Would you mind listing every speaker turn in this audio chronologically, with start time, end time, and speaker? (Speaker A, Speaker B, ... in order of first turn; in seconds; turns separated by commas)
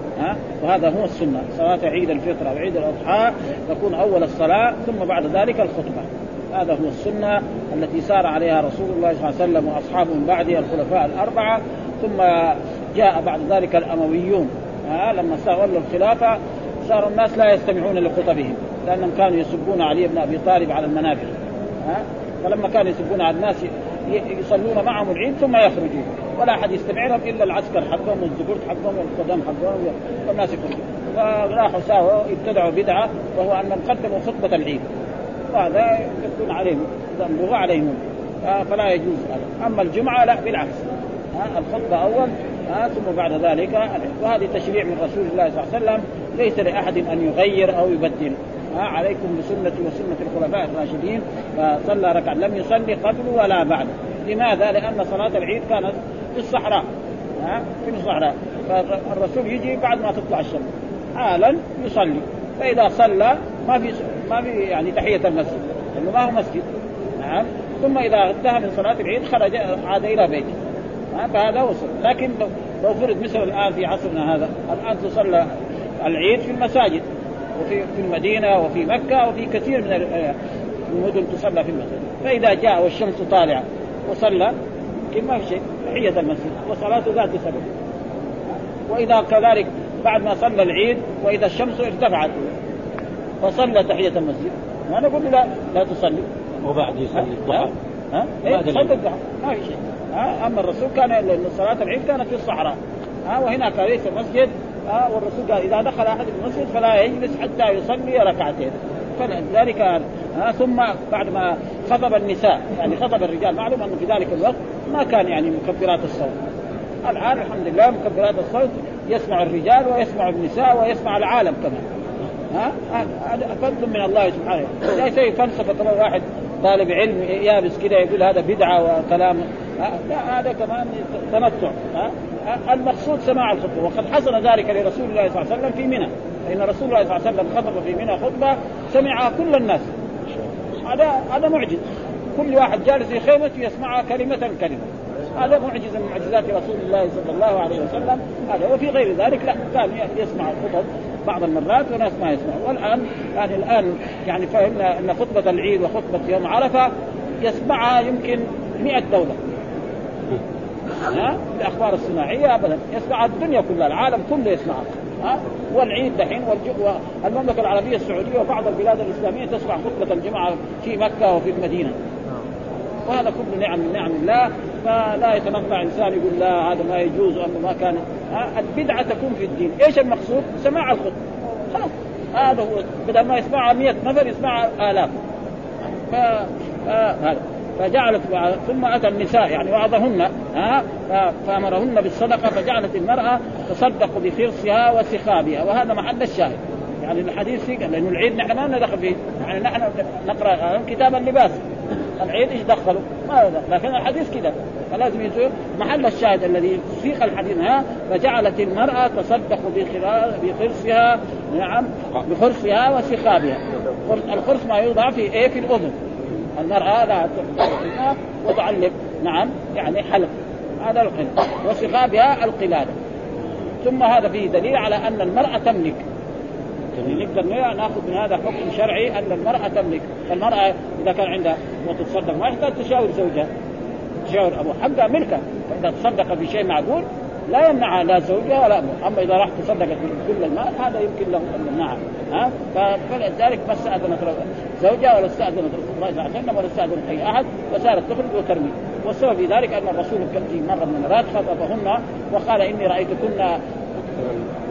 Speaker A: 0.2-34.8, Speaker A: 35.5-56.8, Speaker A: 57.4-66.6, Speaker A: 67.2-70.6, Speaker A: 71.1-75.5, Speaker A: 76.0-77.0, Speaker A: 77.6-80.4, Speaker A: 80.9-84.5, Speaker A: 85.1-87.7, Speaker A: 88.9-92.5, Speaker A: 93.4-96.3, Speaker B: 96.6-97.7, Speaker A: 97.2-116.4, Speaker B: 98.4-99.0, Speaker A: 117.0-121.8, Speaker A: 122.5-139.9, Speaker B: 140.3-140.8, Speaker A: 140.8-141.8, Speaker A: 142.4-156.9, Speaker A: 157.4-159.4, Speaker A: 161.1-171.9, Speaker A: 173.1-181.2, Speaker A: 181.7-185.1, Speaker A: 186.1-201.6, Speaker A: 202.2-215.9, Speaker A: 216.6-220.3, Speaker A: 220.8-222.9, Speaker B: 223.4-223.7, Speaker A: 223.8-226.0, Speaker B: 226.9-227.2, Speaker A: 227.0-233.5, Speaker A: 234.2-253.6, Speaker B: 254.0-254.5